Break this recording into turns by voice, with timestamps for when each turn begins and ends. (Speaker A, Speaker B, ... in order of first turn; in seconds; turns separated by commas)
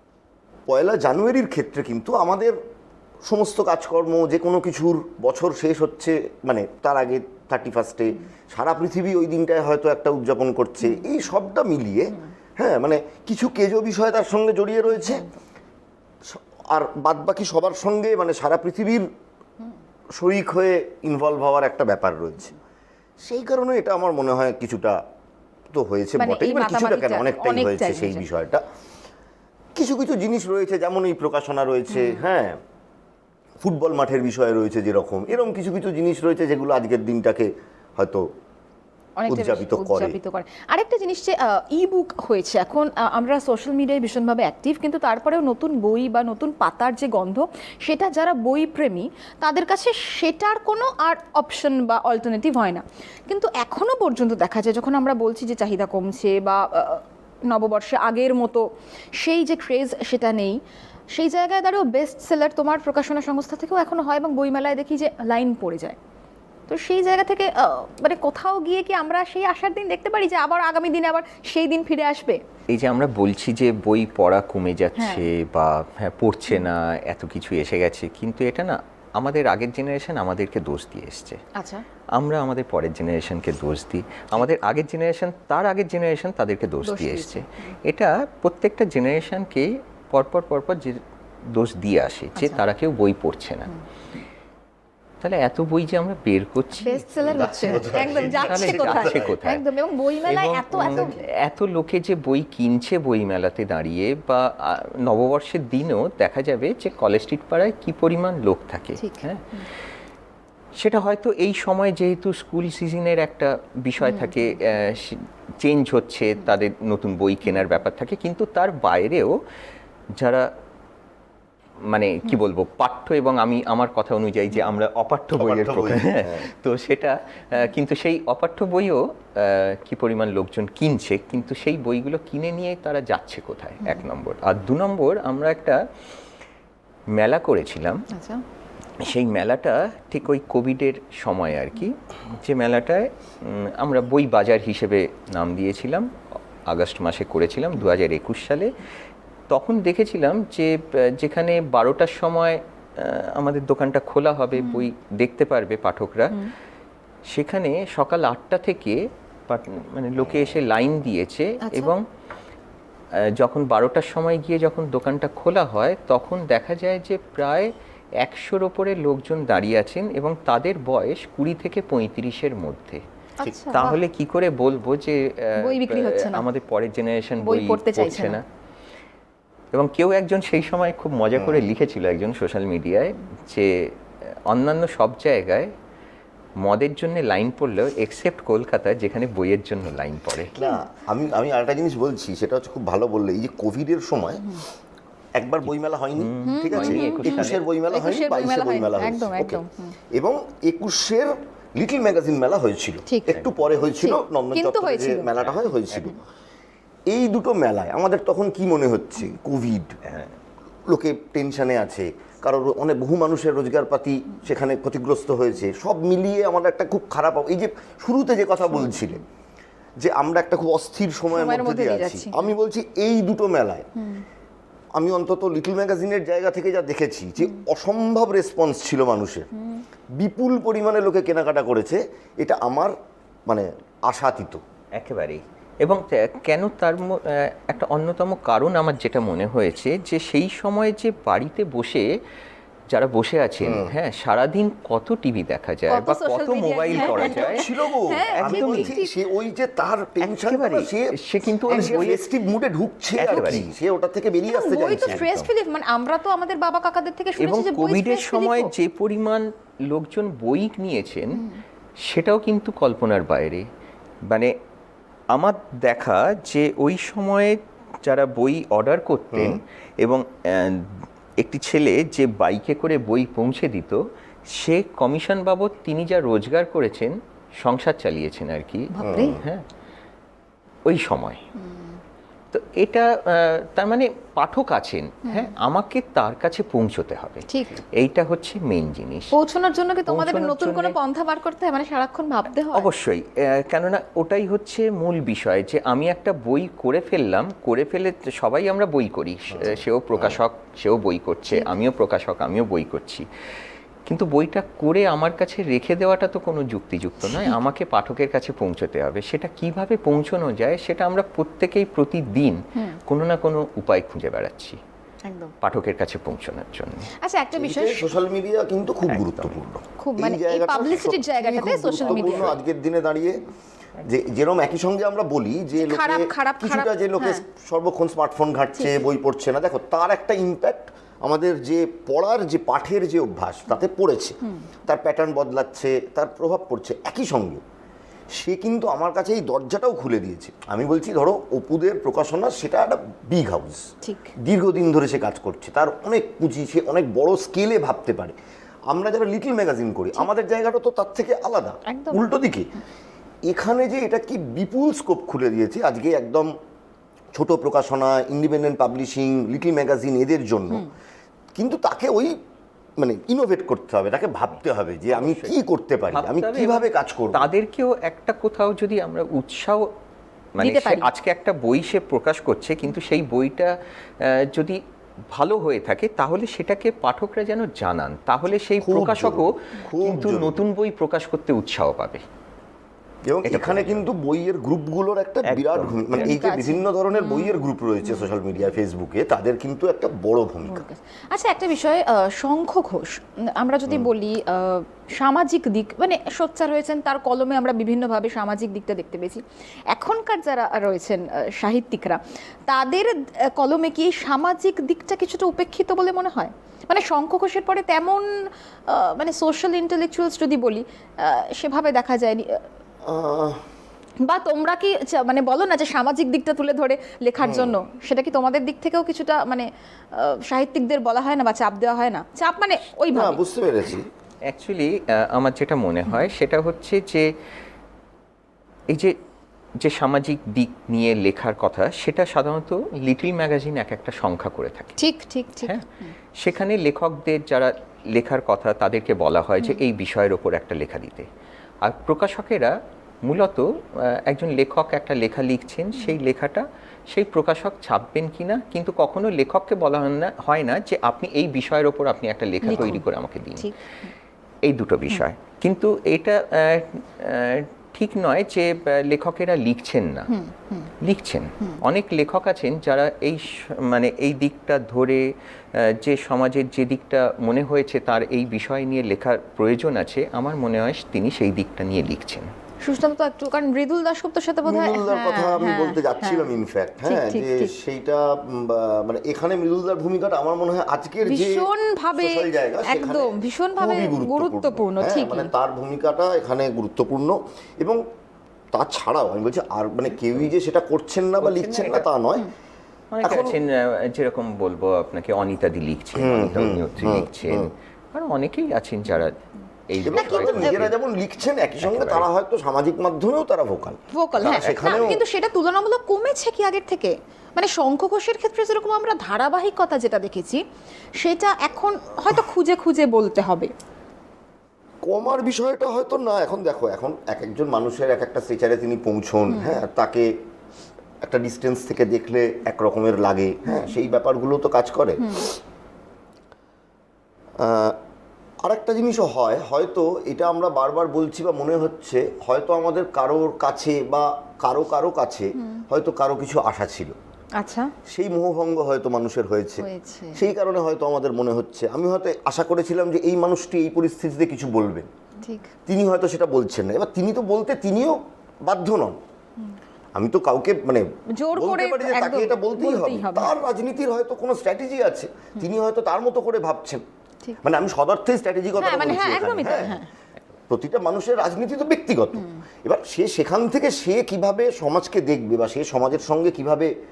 Speaker A: 0.7-2.6, Speaker A: 3.2-15.2, Speaker B: 15.1-15.4, Speaker A: 16.2-19.1, Speaker A: 20.1-22.5, Speaker A: 23.2-25.0, Speaker A: 25.7-28.6, Speaker B: 26.2-28.2, Speaker A: 29.8-32.6, Speaker B: 31.9-32.2, Speaker A: 33.6-38.2, Speaker B: 39.2-58.6, Speaker A: 39.3-40.2, Speaker B: 59.2-60.6, Speaker B: 61.1-66.0, Speaker B: 66.7-72.4, Speaker C: 72.7-81.4, Speaker B: 75.0-75.2, Speaker B: 81.5-81.8, Speaker C: 82.1-93.7, Speaker B: 86.8-87.7, Speaker C: 95.2-99.6, Speaker B: 96.8-101.1, Speaker A: 97.2-99.3, Speaker C: 100.2-109.4, Speaker A: 100.7-101.2, Speaker B: 109.0-109.7, Speaker C: 110.8-119.4, Speaker B: 114.0-114.5, Speaker C: 120.2-120.5, Speaker C: 121.9-135.8, Speaker A: 125.4-126.5, Speaker C: 137.1-138.1, Speaker B: 138.1-138.4, Speaker C: 139.0-146.1, Speaker C: 146.7-148.7, Speaker C: 149.5-156.4, Speaker B: 154.6-154.9, Speaker C: 157.3-162.1, Speaker B: 161.6-161.9, Speaker C: 163.1-173.0, Speaker B: 173.4-174.0, Speaker C: 173.7-178.4, Speaker B: 175.6-176.4, Speaker B: 177.4-178.4, Speaker C: 179.7-185.7, Speaker C: 186.6-190.5, Speaker A: 190.5-194.6, Speaker A: 195.3-199.6, Speaker C: 195.7-197.6, Speaker B: 196.4-199.9, Speaker A: 200.1-206.2, Speaker B: 203.1-203.3, Speaker C: 203.3-203.7, Speaker B: 204.0-205.3, Speaker C: 205.4-206.1, Speaker A: 207.1-210.0, Speaker C: 210.0-210.3, Speaker A: 210.9-219.2, Speaker B: 218.7-219.0, Speaker A: 220.0-223.9, Speaker B: 221.3-222.4, Speaker B: 224.0-224.2, Speaker A: 224.9-229.5, Speaker B: 229.6-229.8, Speaker A: 230.1-232.9, Speaker A: 233.5-234.6, Speaker C: 234.9-242.1, Speaker C: 242.9-247.8, Speaker A: 243.6-243.9, Speaker B: 245.9-249.1, Speaker A: 246.9-251.1, Speaker C: 248.3-248.9, Speaker C: 250.2-252.3, Speaker A: 251.6-255.3, Speaker C: 253.2-253.7, Speaker B: 253.3-253.7, Speaker B: 254.4-258.7, Speaker C: 255.0-255.5, Speaker C: 257.4-261.4, Speaker C: 262.0-263.6, Speaker C: 264.3-264.5, Speaker C: 265.3-274.0, Speaker A: 269.3-269.6, Speaker C: 274.5-279.6, Speaker B: 278.9-279.4, Speaker A: 279.0-279.4, Speaker C: 280.9-281.4, Speaker B: 281.6-282.0, Speaker C: 282.5-289.3, Speaker B: 285.3-285.5, Speaker B: 287.5-287.8, Speaker B: 289.3-292.9, Speaker C: 290.1-290.9, Speaker C: 292.7-303.2, Speaker A: 299.5-300.4, Speaker B: 301.5-301.8, Speaker C: 304.1-314.8, Speaker B: 315.2-315.5, Speaker C: 315.6-317.1, Speaker B: 317.2-318.1, Speaker A: 317.5-323.4, Speaker C: 319.1-319.6, Speaker B: 320.0-322.5, Speaker C: 322.0-322.6, Speaker A: 324.0-337.6, Speaker B: 325.8-327.4, Speaker B: 328.8-329.0, Speaker A: 338.3-348.4, Speaker B: 344.0-344.3, Speaker A: 348.9-352.7, Speaker B: 351.9-352.3, Speaker A: 353.5-356.5, Speaker A: 357.3-360.9, Speaker A: 361.6-362.4, Speaker A: 363.0-367.5, Speaker C: 365.1-365.6, Speaker C: 366.1-369.9, Speaker C: 370.6-374.8, Speaker B: 370.6-371.1, Speaker C: 375.3-382.2, Speaker A: 378.8-380.6, Speaker A: 383.3-390.8, Speaker C: 383.4-384.0, Speaker C: 385.4-386.4, Speaker B: 386.2-388.3, Speaker B: 390.6-408.2, Speaker B: 408.9-412.6, Speaker A: 413.0-413.6, Speaker B: 414.2-423.4, Speaker A: 417.4-417.8, Speaker A: 423.1-424.1, Speaker C: 424.5-427.3, Speaker C: 428.9-429.1, Speaker C: 429.8-434.9, Speaker B: 435.0-436.1, Speaker C: 435.6-441.3, Speaker C: 441.8-453.7, Speaker B: 452.6-453.0, Speaker B: 453.6-454.1, Speaker C: 454.6-460.3, Speaker B: 460.3-460.9, Speaker C: 461.0-472.5, Speaker B: 472.8-477.7, Speaker A: 474.6-488.0, Speaker B: 481.2-485.5, Speaker A: 488.7-492.5, Speaker C: 491.4-492.1, Speaker C: 493.1-499.4, Speaker A: 493.2-493.6, Speaker A: 496.1-497.7, Speaker C: 499.9-500.9, Speaker A: 500.0-505.2, Speaker B: 500.2-500.8, Speaker C: 501.8-502.2, Speaker B: 504.1-510.6, Speaker C: 504.4-505.1, Speaker B: 511.2-513.7, Speaker A: 515.0-520.3, Speaker B: 519.5-519.8, Speaker A: 521.2-525.5, Speaker B: 525.2-525.5, Speaker A: 527.6-528.0, Speaker A: 528.6-537.1, Speaker B: 537.6-537.9, Speaker A: 538.1-545.1, Speaker B: 539.8-540.4, Speaker B: 545.4-545.7, Speaker A: 545.9-549.2, Speaker A: 550.1-557.0, Speaker B: 551.4-553.6, Speaker A: 557.6-560.0, Speaker B: 558.8-560.1, Speaker A: 560.7-566.9